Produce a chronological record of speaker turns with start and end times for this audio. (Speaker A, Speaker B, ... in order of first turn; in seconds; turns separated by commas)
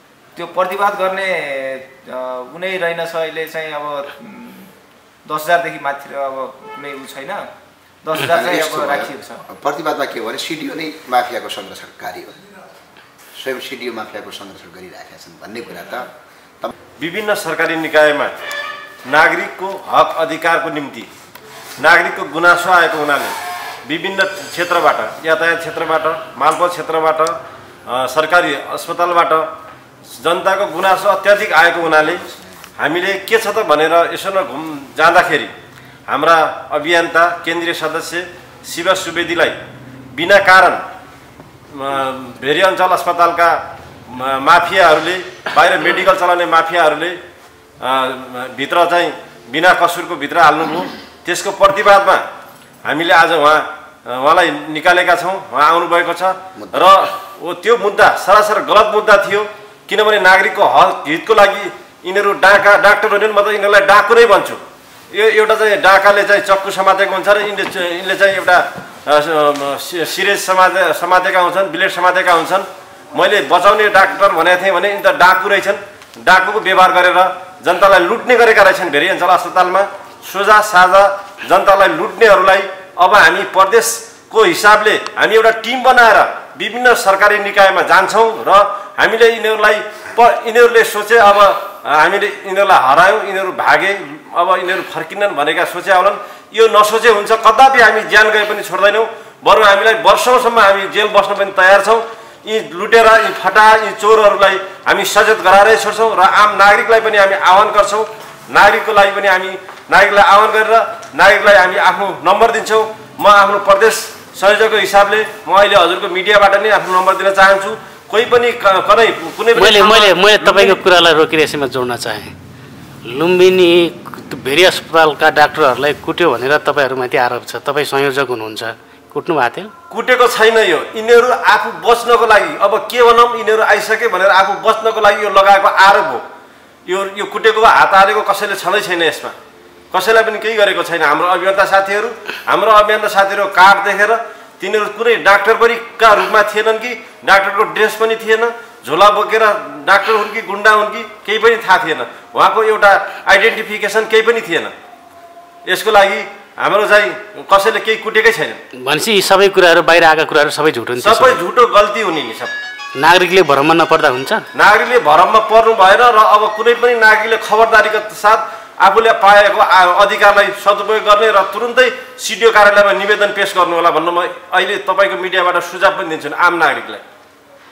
Speaker A: 0.4-4.7, Speaker A: 5.3-7.4, Speaker A: 8.0-9.4, Speaker B: 8.2-12.4, Speaker B: 13.4-16.1, Speaker C: 17.0-18.4, Speaker C: 19.1-21.1, Speaker C: 21.8-27.3, Speaker C: 27.9-29.4, Speaker C: 30.1-32.2, Speaker C: 32.8-35.5, Speaker C: 36.1-39.6, Speaker C: 40.1-40.8, Speaker C: 41.7-43.5, Speaker C: 44.1-47.2, Speaker C: 47.8-52.2, Speaker C: 52.8-64.6, Speaker B: 56.6-57.1, Speaker C: 65.1-120.8, Speaker D: 119.5-122.3, Speaker D: 123.1-129.7, Speaker C: 129.9-136.2, Speaker C: 136.9-139.3, Speaker C: 139.9-154.7, Speaker C: 155.7-158.6, Speaker D: 158.8-161.4, Speaker C: 161.0-162.5, Speaker D: 163.0-164.4, Speaker C: 164.5-177.0